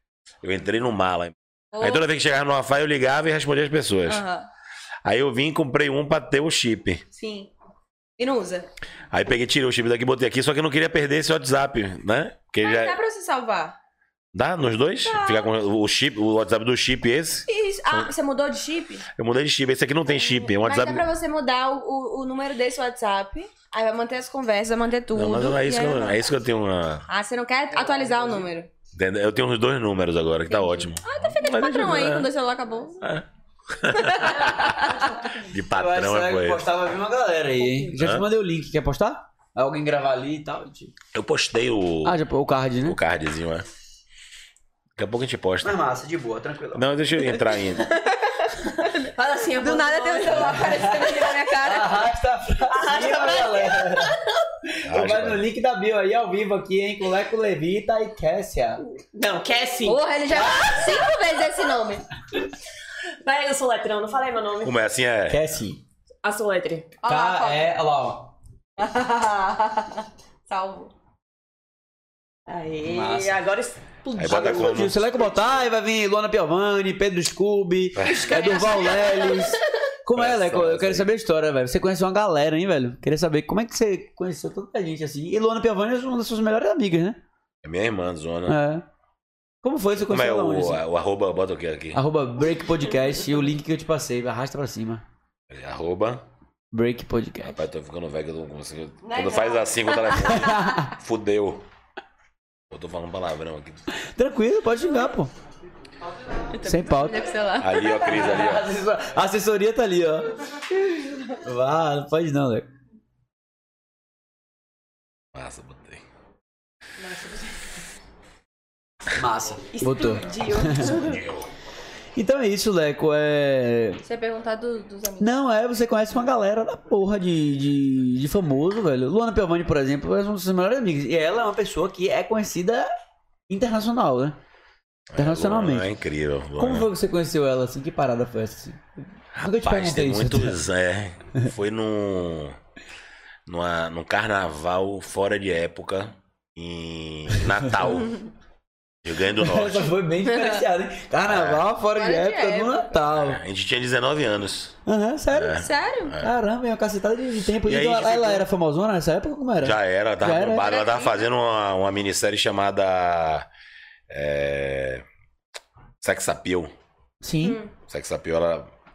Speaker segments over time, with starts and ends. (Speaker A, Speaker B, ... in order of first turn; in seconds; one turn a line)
Speaker A: 0.4-4.2
Speaker B: 1.7-2.0
Speaker B: 4.1-4.5
Speaker A: 5.0-7.0
Speaker B: 7.1-7.5
Speaker B: 8.2-8.7
Speaker A: 9.1-13.0
Speaker B: 12.6-13.8
Speaker A: 14.3-18.1
Speaker B: 15.0-15.5
Speaker B: 17.5-19.1
Speaker A: 19.2-21.1
Speaker B: 20.2-26.2
Speaker A: 25.1-27.1
Speaker B: 27.1-28.7
Speaker A: 28.9-32.3
Speaker B: 30.5-33.0
Speaker A: 33.0-36.6
Speaker B: 33.9-35.3
Speaker C: 35.7-40.9
Speaker A: 38.0-38.2
Speaker A: 41.1-42.2
Speaker C: 42.0-43.0
Speaker A: 42.8-43.7
Speaker A: 45.0-45.8
Speaker C: 45.6-46.9
Speaker A: 46.8-47.9
Speaker B: 48.0-48.9
Speaker D: 49.0-51.4
Speaker B: 49.5-52.1
Speaker C: 50.3-54.1
Speaker D: 52.6-54.2
Speaker C: 54.7-58.8
Speaker A: 54.9-55.5
Speaker D: 59.1-60.0
Speaker B: 59.8-62.0
Speaker C: 60.3-61.0
Speaker D: 63.2-64.8
Speaker A: 64.6-65.6
Speaker C: 65.3-65.8
Speaker D: 66.2-66.9
Speaker B: 67.0-67.7
Speaker C: 67.1-68.3
Speaker B: 68.8-70.9
Speaker D: 72.5-74.9
Speaker C: 72.8-73.4
Speaker A: 74.1-75.0
Speaker C: 74.2-87.2
Speaker A: 78.0-78.3
Speaker D: 78.0-79.5
Speaker B: 78.5-79.4
Speaker A: 80.1-81.1
Speaker A: 87.6-88.6
Speaker C: 88.5-88.8
Speaker C: 89.6-90.8
Speaker A: 90.0-92.0
Speaker C: 91.9-95.0
Speaker A: 95.5-96.2
Speaker C: 96.7-97.6
Speaker A: 97.4-101.7
Speaker D: 99.0-100.3
Speaker C: 100.3-100.9
Speaker A: 102.7-103.8
Speaker C: 103.9-105.3
Speaker B: 106.5-108.2
Speaker C: 106.6-107.3
Speaker A: 107.6-108.7
Speaker C: 108.0-110.3
Speaker C: 111.4-112.7
Speaker A: 115.3-116.0
Speaker D: 117.1-117.5
Speaker C: 119.1-121.0
Speaker D: 119.7-121.2
Speaker A: 120.8-121.5
Speaker C: 122.2-124.0
Speaker B: 124.0-125.4
Speaker C: 125.2-132.9
Speaker C: 133.5-134.4
Speaker A: 135.1-136.9
Speaker C: 135.2-135.9
Speaker C: 136.6-140.6
Speaker A: 139.3-142.6
Speaker A: 143.5-148.2
Speaker A: 149.0-149.9
Speaker C: 149.3-153.4
Speaker B: 150.3-150.6
Speaker A: 151.2-151.7
Speaker B: 151.9-152.9
Speaker A: 153.1-154.8
Speaker C: 154.9-155.7
Speaker A: 155.3-156.3
Speaker B: 155.5-156.2
Speaker C: 156.2-160.7
Speaker A: 157.6-158.5
Speaker A: 159.6-163.5
Speaker B: 160.6-161.3
Speaker A: 164.1-165.1
Speaker A: 166.0-166.7
Speaker C: 167.2-167.6
Speaker B: 167.4-167.7
Speaker A: 167.9-168.7